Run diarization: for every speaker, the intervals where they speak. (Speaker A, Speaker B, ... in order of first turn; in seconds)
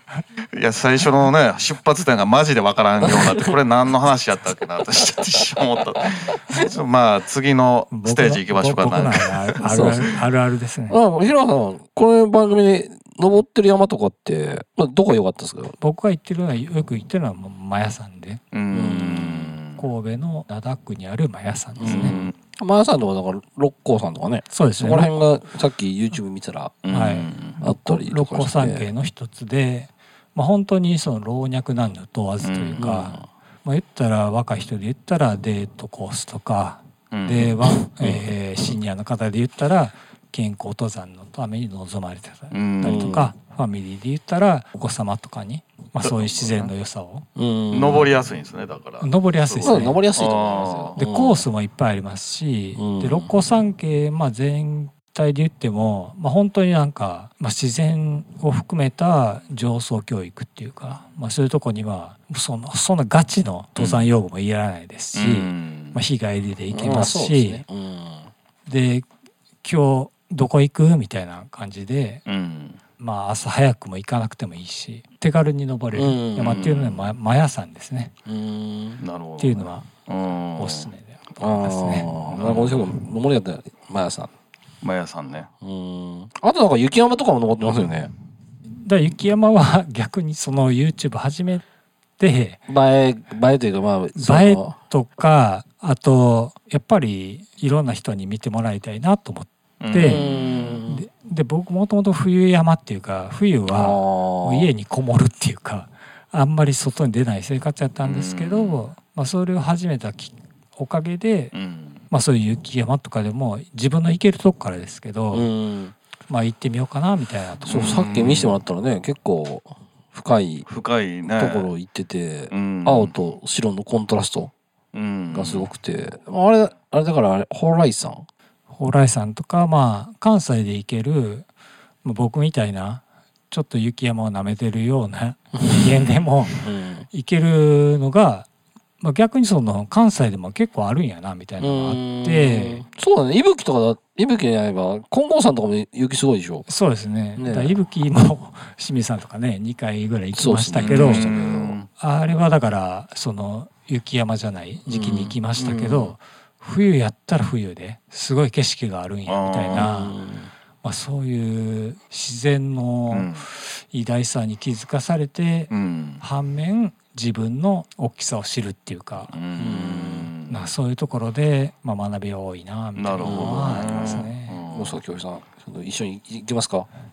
Speaker A: 0.5-10.0, 18.5-19.8, 21.9-22.3, 26.8-27.6, 32.4-33.1, 37.1-37.5, 42.5-43.2, 46.0-46.7, 47.7-51.0, 63.8-64.1, 65.1-66.0, 72.2-72.8, 76.4-77.1, 79.0-80.9, 82.3-82.9, 84.8-85.5, 99.8-100.8, 108.0-108.8, 111.5-112.0, 117.7-118.6, 120.7-121.7, 122.5-123.1, 124.9-125.7, 150.8-151.9, 159.3-159.9, 163.1-163.4, 165.7-166.2, 169.3-170.7, 172.9-175.0
Speaker B: 3.0-3.5, 6.2-6.7, 9.6-10.1, 10.9-15.8, 18.7-19.6, 21.8-26.7, 27.6-28.9, 32.8-33.2, 37.7-38.2, 42.8-43.3, 47.4-48.1, 49.6-51.4, 52.8-53.3, 66.7-68.3, 75.9-76.7, 78.2-79.0, 81.4-84.3, 85.6-88.1, 92.7-94.7, 100.0-101.0, 103.7-104.7, 115.3-115.9, 117.6-120.7, 121.3-124.5, 125.3-128.3, 136.5-137.1, 141.6-146.7, 147.4-147.7, 150.3-151.8, 154.9-156.1, 159.7-160.5, 169.6-170.3, 173.2-176.9
Speaker C: 7.9-10.9, 15.8-18.4, 19.7-22.2, 24.5-25.1, 26.9-47.2, 49.0-50.0, 51.0-67.6, 68.7-69.1, 69.6-72.2, 73.0-78.1, 79.4-79.9, 80.5-82.1, 88.8-91.6, 92.2-92.6, 94.2-100.3, 100.9-111.5, 112.1-115.5, 116.3-117.9, 128.8-131.5, 132.0-138.5, 139.0-142.8, 146.7-151.3, 152.0-160.2, 160.8-169.3, 170.5-174.6